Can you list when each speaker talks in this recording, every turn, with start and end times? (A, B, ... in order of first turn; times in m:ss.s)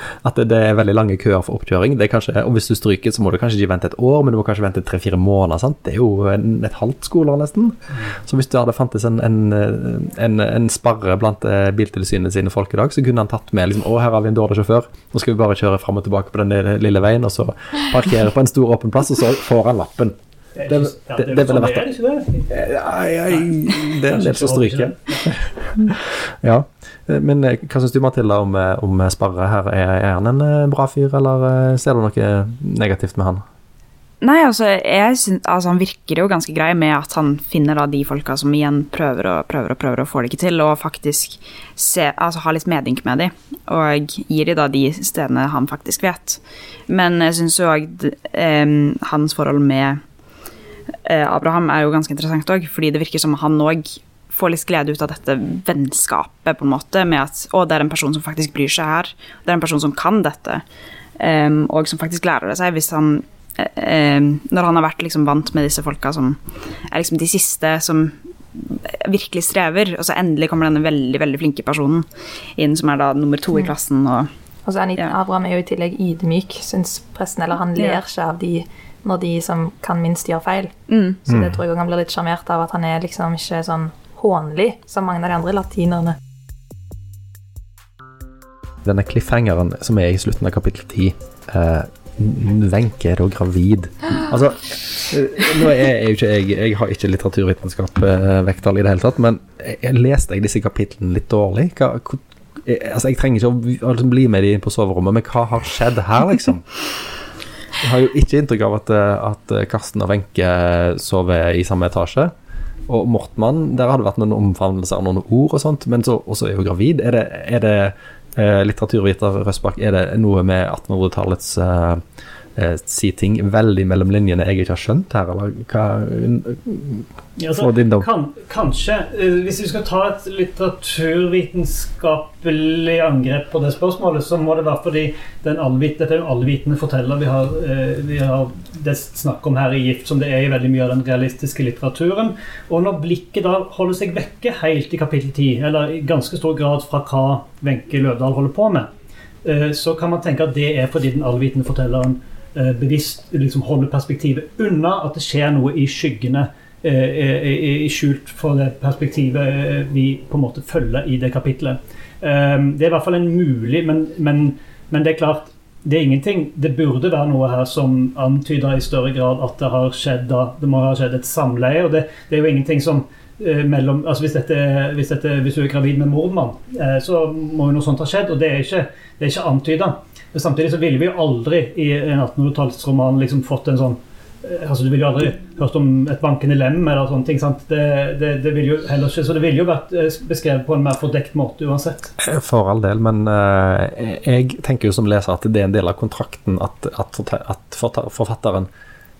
0:00.2-0:20.1 A
0:20.6-0:22.5 B
0:20.7-0:21.8 A
0:22.5-0:33.4 A
0:23.9-0:25.3 B
0:34.2-0:50.0 C
0:51.0-1:00.6 C
1:01.2-1:14.3 C
1:14.6-1:26.2 D
1:20.9-1:21.2 C
1:21.3-1:21.6 A
1:28.8-1:46.6 A
1:47.8-1:52.3 A
1:52.9-2:02.0 A
2:02.6-2:08.1 A
2:07.4-2:28.9 B
2:29.4-3:12.1 B
3:12.2-3:18.7 A